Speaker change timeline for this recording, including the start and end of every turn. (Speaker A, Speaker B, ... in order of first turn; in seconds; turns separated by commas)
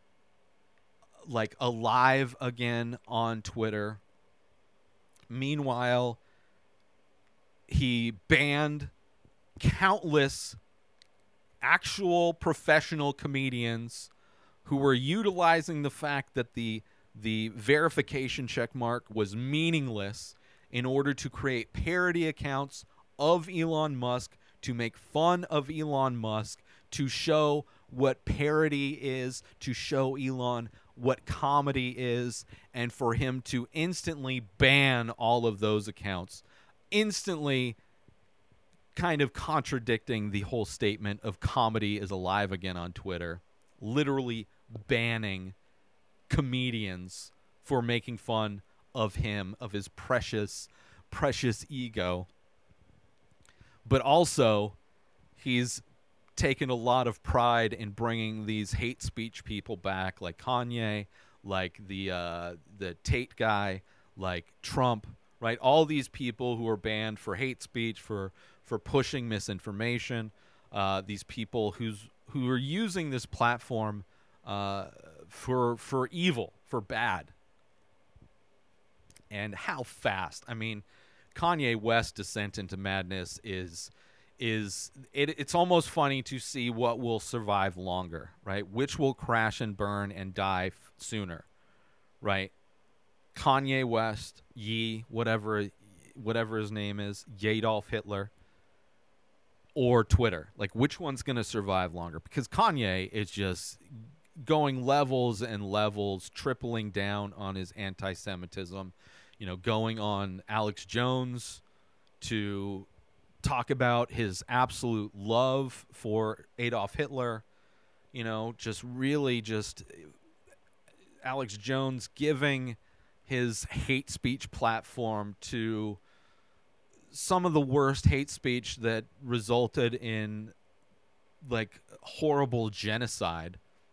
Speaker A: 1.2-4.0, Speaker A: 5.3-6.2, Speaker A: 7.7-8.9, Speaker A: 9.6-10.6, Speaker A: 11.6-14.1, Speaker A: 14.6-37.8, Speaker A: 38.9-45.5, Speaker A: 46.3-52.3, Speaker A: 53.8-54.8, Speaker A: 55.4-55.8, Speaker A: 56.4-77.3, Speaker A: 79.3-91.5, Speaker A: 92.2-92.5, Speaker A: 93.3-98.3, Speaker A: 99.8-103.8, Speaker A: 104.3-111.6, Speaker A: 112.2-112.9, Speaker A: 113.4-117.4, Speaker A: 118.1-120.1, Speaker A: 121.2-126.0, Speaker A: 127.1-130.5, Speaker A: 131.4-133.6